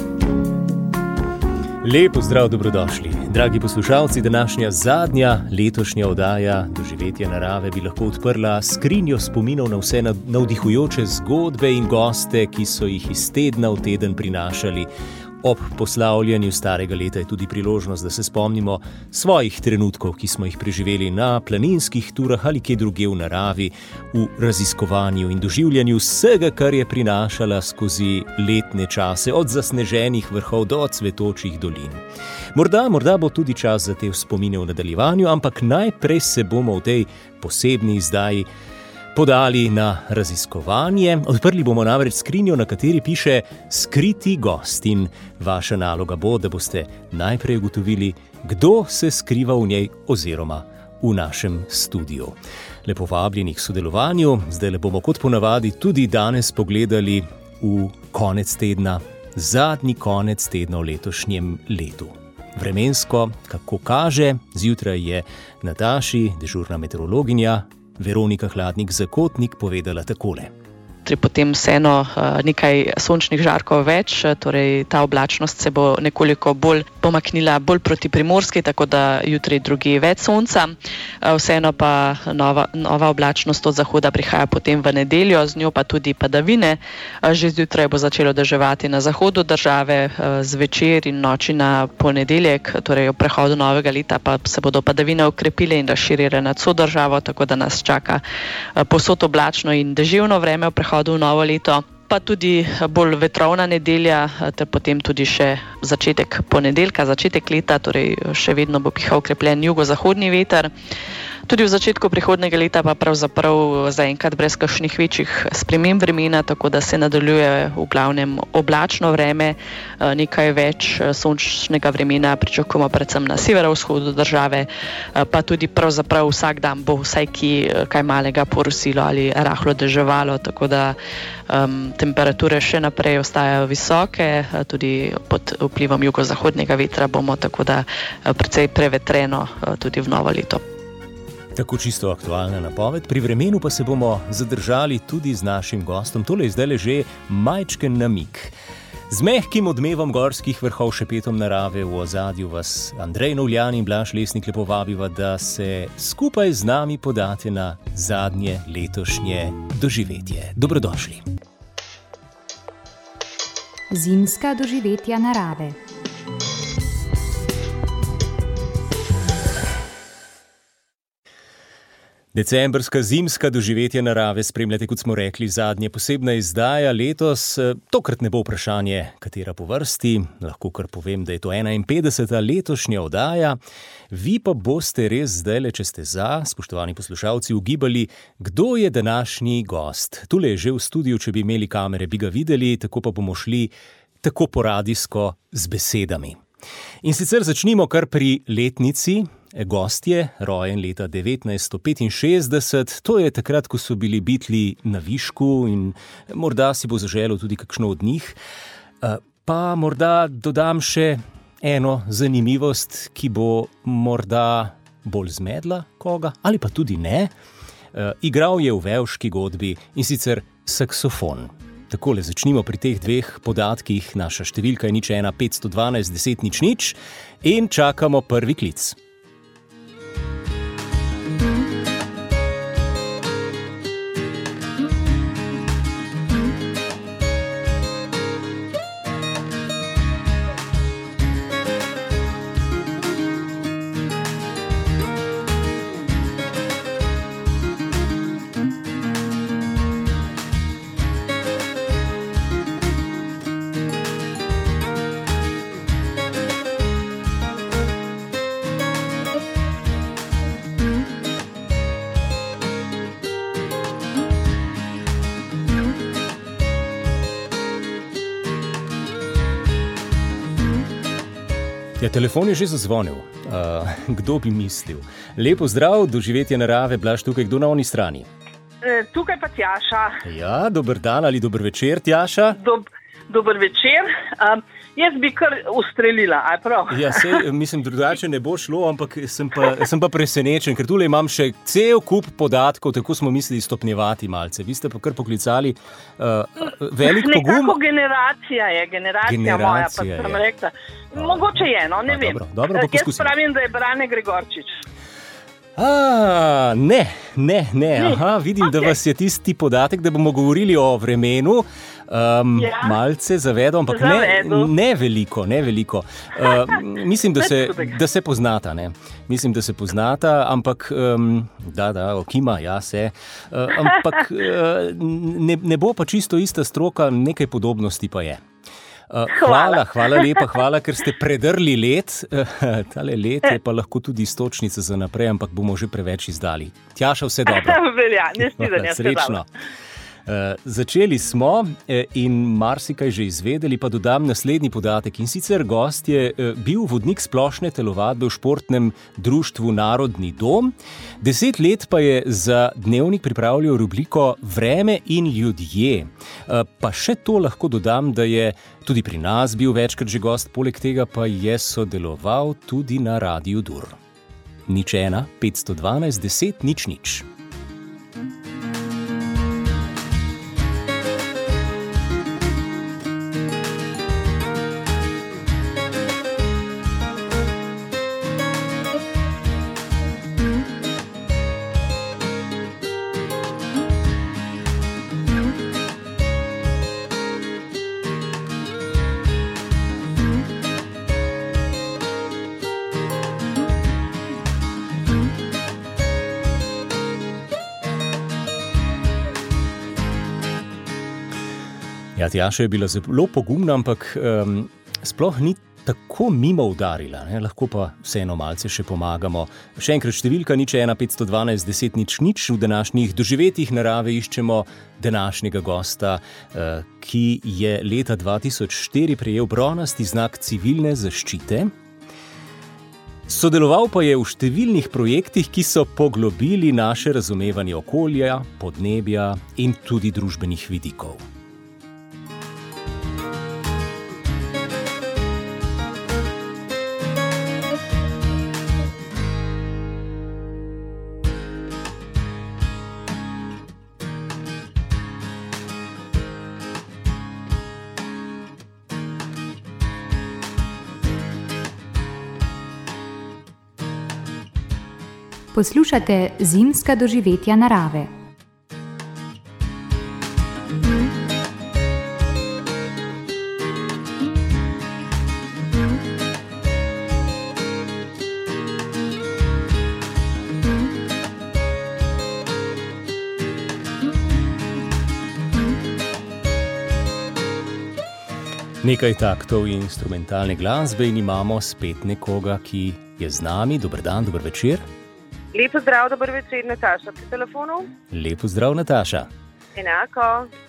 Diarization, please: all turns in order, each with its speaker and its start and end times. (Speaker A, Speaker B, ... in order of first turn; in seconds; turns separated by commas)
Speaker A: 1.8-14.9, Speaker A: 15.4-32.0, Speaker A: 32.5-38.5, Speaker A: 39.1-70.5, Speaker B: 71.0-98.2, Speaker B: 98.8-110.7, Speaker B: 111.5-130.9, Speaker B: 131.5-140.6, Speaker A: 141.5-148.5, Speaker A: 149.1-161.2, Speaker C: 163.9-165.8, Speaker A: 172.3-183.6, Speaker A: 184.1-196.4, Speaker A: 197.0-208.4, Speaker A: 209.0-217.3, Speaker A: 217.9-229.0, Speaker A: 272.0-278.3, Speaker D: 278.8-280.2, Speaker A: 280.2-282.6, Speaker D: 282.5-287.4, Speaker A: 286.9-297.8, Speaker D: 297.0-304.7, Speaker A: 299.2-300.4, Speaker A: 301.1-303.3, Speaker A: 305.8-328.4, Speaker D: 312.6-312.9, Speaker D: 313.9-314.7, Speaker D: 317.4-317.9, Speaker A: 329.1-337.8, Speaker D: 329.4-330.4, Speaker D: 337.5-339.4, Speaker A: 338.4-339.5, Speaker A: 340.2-364.0, Speaker A: 364.7-367.2, Speaker A: 402.1-421.7, Speaker A: 423.3-431.2, Speaker C: 455.5-458.1, Speaker A: 478.8-484.9, Speaker E: 485.5-487.9, Speaker A: 488.1-489.3, Speaker E: 489.8-490.4